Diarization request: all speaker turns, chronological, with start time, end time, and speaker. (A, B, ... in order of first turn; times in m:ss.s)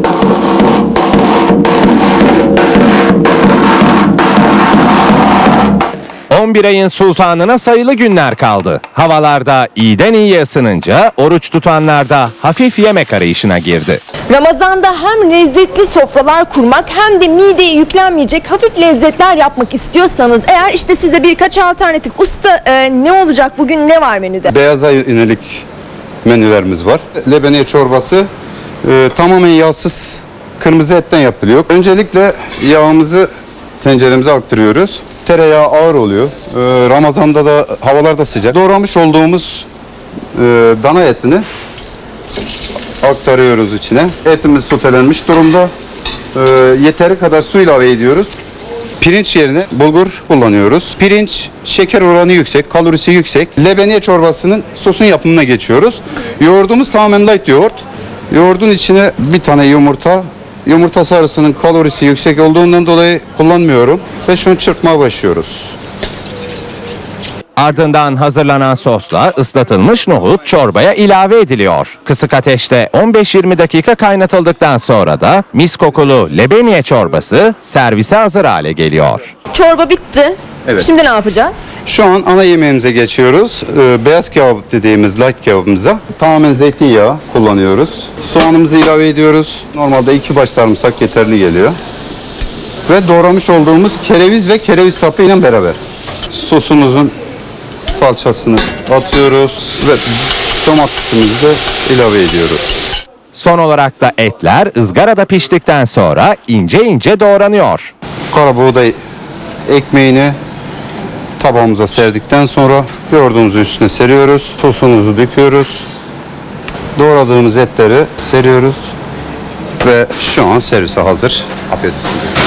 0:06.3-0:14.0 A
0:14.3-0:24.5 B
0:24.5-0:25.6 C
0:26.2-0:28.3 C
0:28.8-0:33.3 C
0:33.8-0:39.7 C
0:40.3-0:41.4 C
0:43.0-0:45.7 C
0:46.3-0:48.4 C
0:49.0-1:05.8 C
1:07.6-1:19.3 A
1:19.5-1:21.5 B
1:21.8-1:31.8 C
1:32.9-1:37.1 C
1:37.8-1:42.6 C
1:43.3-1:47.9 A
1:48.3-1:49.0 C
1:49.7-1:50.4 C
1:51.4-1:55.8 C
1:57.0-1:58.9 C
1:59.8-2:02.3 C